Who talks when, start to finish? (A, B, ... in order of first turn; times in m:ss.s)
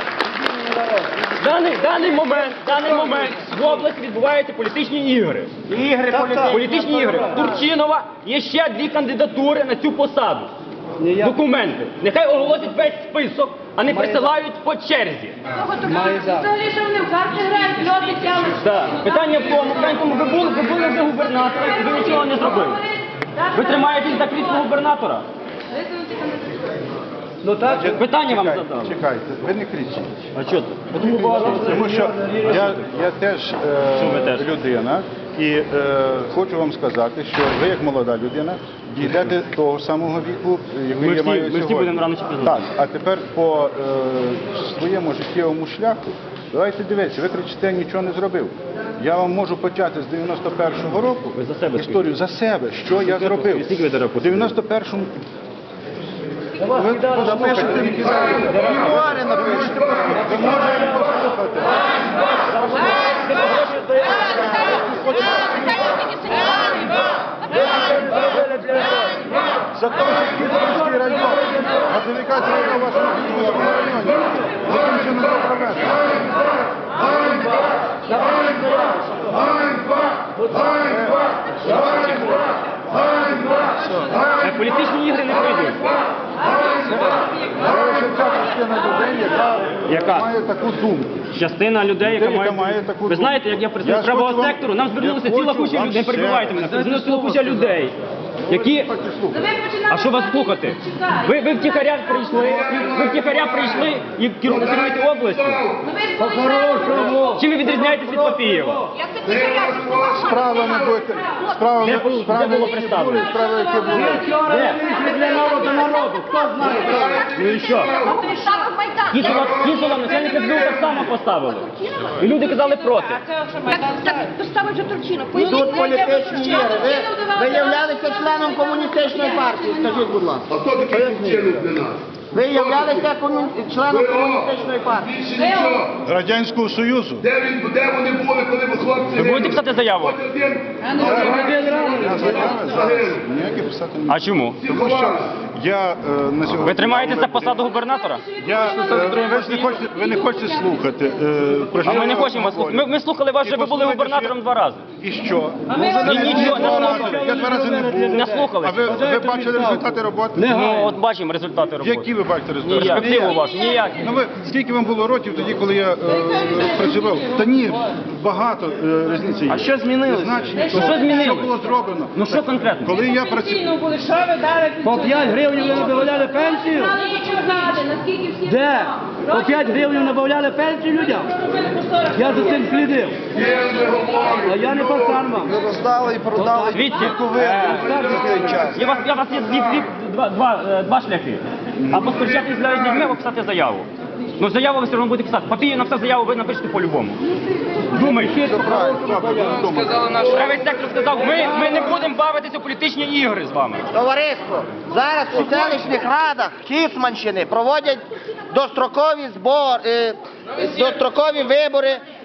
0:00.4-0:01.1 A
0:01.2-0:05.5 B
0:05.7-0:06.8 C
0:06.1-0:07.4 A
0:06.4-0:10.5 B
0:11.0-0:11.3 A
0:11.2-0:15.4 B
0:13.9-0:14.3 A
0:15.6-0:18.5 D
0:15.8-0:16.6 A
0:18.4-0:22.8 B
0:23.5-0:25.2 B
0:25.8-0:26.4 D
0:27.4-0:27.8 A
0:27.6-0:30.1 E
0:27.9-0:28.9 B
0:30.3-0:31.6 B
0:31.0-0:32.6 A
0:31.0-0:55.2 E
0:34.0-0:34.5 B
0:41.0-0:42.6 B
0:51.3-0:52.1 B
0:53.0-0:54.5 B
0:56.6-1:01.8 E
0:57.0-0:58.1 A
0:58.0-1:00.1 C
1:05.4-1:07.0 D
1:08.4-1:08.9 A
1:09.7-1:16.3 E
1:18.2-1:19.1 A
1:19.6-1:19.9 E
1:20.6-1:21.3 E
1:24.4-1:25.9 B
1:26.6-1:31.2 E
1:29.9-1:30.3 B
1:31.3-1:37.9 B
1:32.0-1:37.7 E
1:38.5-1:38.9 B
1:38.5-1:39.5 E
1:39.9-1:45.7 B
1:45.8-1:47.1 D
1:46.2-1:47.4 A
1:47.3-1:48.9 B
1:48.0-1:48.7 A
1:49.0-1:50.8 D
1:50.0-1:54.4 E
1:51.8-1:53.4 B
1:53.6-1:53.9 D
1:53.9-1:57.2 A
1:54.3-1:54.9 B
1:54.7-1:59.2 D
1:57.2-1:58.0 B
1:59.1-2:03.2 B
2:01.8-2:02.1 D
2:03.4-2:07.3 D
2:05.4-2:11.7 C
2:12.3-2:15.2 C
2:15.4-2:15.8 D
2:15.6-2:15.9 F
2:15.9-2:17.4 E
2:17.4-2:19.1 F
2:19.0-2:20.2 B
2:20.3-2:20.6 F
2:20.9-2:27.6 E
2:21.0-2:22.2 A
2:24.1-2:24.6 B
2:26.6-2:29.8 B
2:28.4-2:34.4 E
2:31.8-2:34.8 B
2:35.0-2:40.6 E
2:35.8-2:38.5 A
2:36.0-2:37.3 B
2:38.1-2:39.0 B
2:39.0-2:39.8 A
2:40.4-2:40.9 A
2:40.4-2:42.1 B
2:41.8-2:43.4 E
2:42.7-2:44.1 B
2:42.8-2:43.4 A
2:44.0-2:54.0 E
2:49.5-2:51.5 B
2:52.1-2:53.0 B
2:54.0-2:54.6 D
2:54.3-2:57.1 A
2:57.0-2:58.5 D
2:58.4-3:03.4 A
3:03.4-3:04.4 F
3:04.3-3:08.7 A
3:05.7-3:06.2 C
3:06.7-3:17.2 B
3:07.2-3:08.3 F
3:11.8-3:12.2 E
3:17.9-3:18.4 B
3:18.2-3:20.2 E
3:18.3-3:19.6 A
3:19.8-3:23.9 B
3:23.9-3:32.0 C